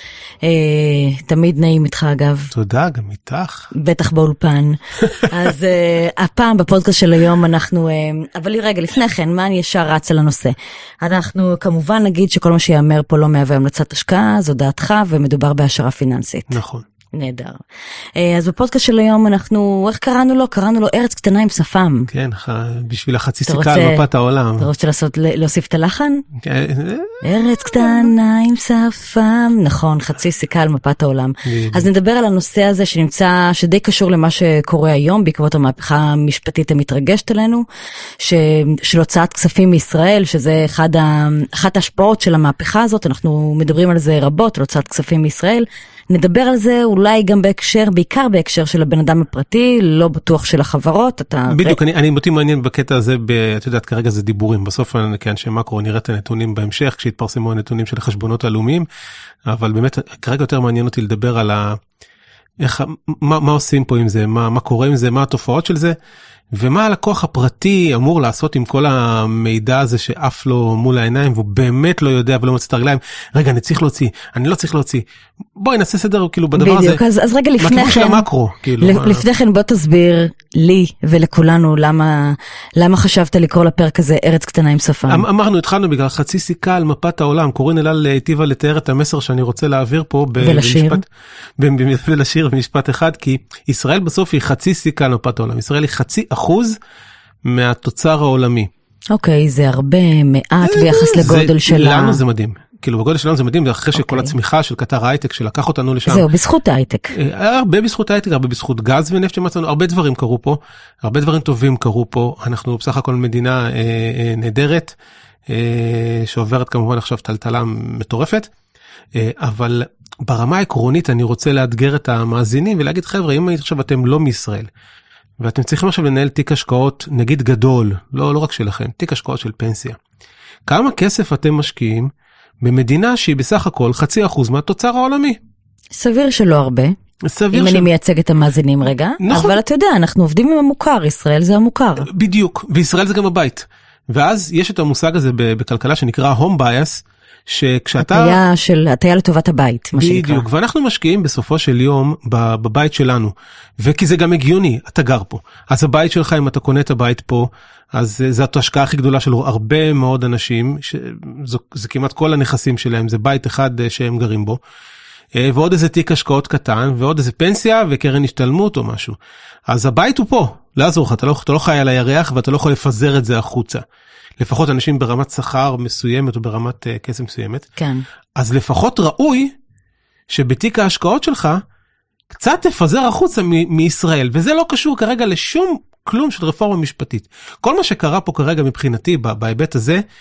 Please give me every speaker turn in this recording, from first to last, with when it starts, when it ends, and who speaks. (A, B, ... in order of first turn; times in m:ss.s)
0:00.4-0:02.5 A
0:02.5-0:03.7 B
0:03.7-0:16.6 A
0:16.5-0:16.8 B
0:17.1-0:17.6 A
0:18.2-0:22.1 A
0:22.1-0:24.7 B
0:23.4-0:24.0 A
0:24.6-0:26.2 A
0:26.4-0:27.6 B
0:27.2-0:37.6 A
0:31.4-0:31.9 B
0:38.2-0:51.8 A
0:51.5-0:58.9 B
0:59.5-1:01.8 B
1:02.6-1:06.0 B
1:06.5-1:15.0 B
1:15.6-1:17.0 B
1:16.5-1:18.2 A
1:17.6-1:19.2 B
1:18.8-1:25.2 A
1:25.1-1:31.0 B
1:30.4-1:31.0 A
1:31.6-1:36.8 B
1:37.4-1:38.7 B
1:39.1-1:42.2 A
1:40.6-1:46.3 B
1:43.9-1:44.3 A
1:46.0-1:47.2 A
1:47.1-1:55.0 B
1:55.5-1:58.5 B
1:59.1-2:04.7 B
2:05.4-2:10.0 B
2:10.7-2:12.1 B
2:12.6-2:15.4 B
2:16.0-2:16.9 A
2:17.3-2:17.9 B
2:17.5-2:22.1 A
2:19.2-2:19.6 B
2:22.1-2:28.4 B
2:28.0-2:30.4 A
2:30.0-2:44.6 B
2:45.3-2:49.2 B
2:49.7-2:53.8 B
2:54.4-2:57.7 B
2:57.8-2:58.0 A
2:58.4-2:59.5 B
3:00.3-3:01.6 B
3:02.3-3:10.0 B